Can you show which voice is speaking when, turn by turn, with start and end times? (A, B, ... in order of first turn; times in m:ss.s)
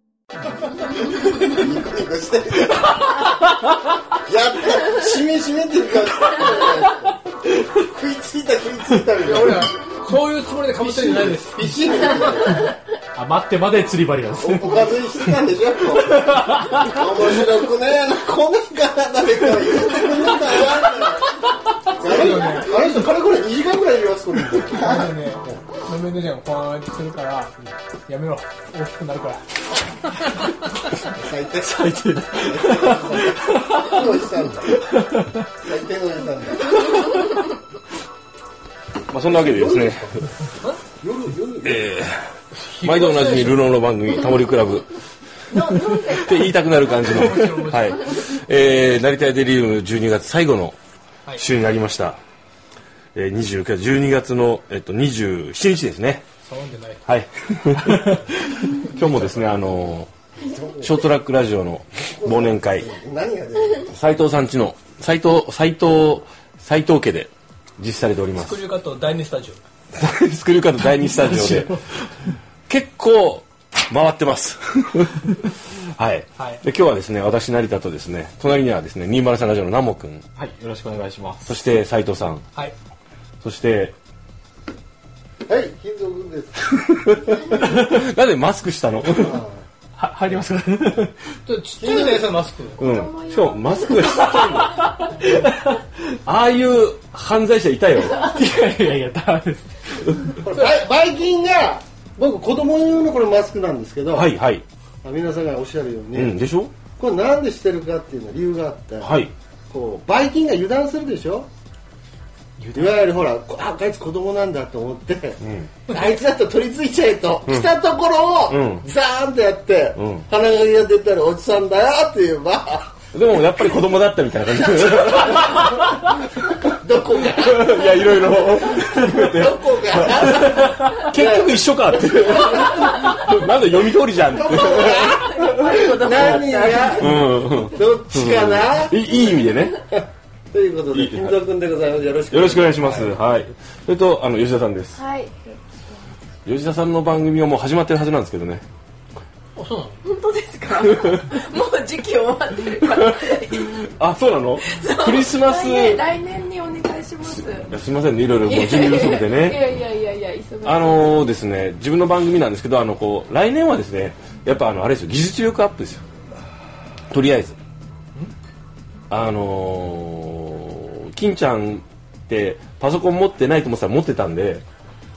0:01.2-0:03.4 A
0:04.1-0:09.7 A
0:09.2-0:11.6 B
0:10.8-0:12.8 A
0:13.1-0:14.9 C
0:14.4-0:25.6 A
0:16.1-0:16.9 C
0:22.0-0:22.7 B
0:24.7-0:29.4 B
0:31.0-0:34.8 A
0:31.6-0:34.0 C
0:34.8-0:35.3 C
0:35.6-0:36.8 A
0:39.1-0:40.2 D
0:39.3-0:40.2 A
0:41.0-0:41.9 A
0:41.6-0:42.3 D
0:42.6-0:43.6 B
0:42.8-0:44.9 D
0:45.7-0:50.8 D
0:45.8-0:46.3 E
0:47.0-0:48.0 B
0:51.4-0:52.2 D
0:53.1-0:56.2 D
0:56.4-0:57.0 B
0:57.0-1:00.1 D
1:00.4-1:01.0 A
1:00.8-1:02.9 D
1:02.1-1:03.9 A
1:03.8-1:08.6 D
1:08.3-1:09.6 B
1:09.9-1:11.7 D
1:11.3-1:11.7 C
1:12.7-1:20.2 D
1:16.4-1:16.6 B
1:20.4-1:21.5 C
1:21.4-1:22.4 D
1:23.4-1:23.9 D
1:25.4-1:26.7 A
1:26.7-1:29.4 D
1:29.1-1:29.6 A
1:30.0-1:31.1 C
1:31.4-1:32.8 B
1:31.8-1:32.3 A
1:32.8-1:34.9 D
1:32.8-1:34.7 E
1:35.2-1:35.5 C
1:36.2-1:38.2 D
1:38.2-1:40.3 C
1:40.4-1:44.3 A
1:40.5-1:40.8 B
1:44.1-1:44.6 D
1:45.0-1:46.3 A
1:46.1-1:46.7 D
1:47.0-1:51.5 A
1:49.0-1:49.3 D
1:52.6-1:53.0 C
1:52.7-2:02.9 A
1:55.4-1:55.7 D
1:58.5-1:58.8 D
2:00.0-2:00.2 D
2:03.1-2:06.0 D
2:05.2-2:05.5 A
2:06.6-2:08.4 A
2:07.4-2:19.8 D
2:09.0-2:12.9 A
2:14.3-2:19.4 A
2:15.3-2:17.1 E
2:19.9-2:23.2 A
2:20.9-2:21.4 D
2:22.3-2:25.0 D
2:25.0-2:25.6 E
2:26.4-2:28.6 D
2:29.6-2:30.0 B
2:30.0-2:33.9 E
2:30.9-2:31.1 D
2:32.9-2:36.1 D
2:34.6-2:37.7 E
2:37.2-2:39.8 D
2:38.4-2:41.3 E
2:40.6-2:46.0 D
2:47.1-2:47.6 D
2:49.1-2:54.6 D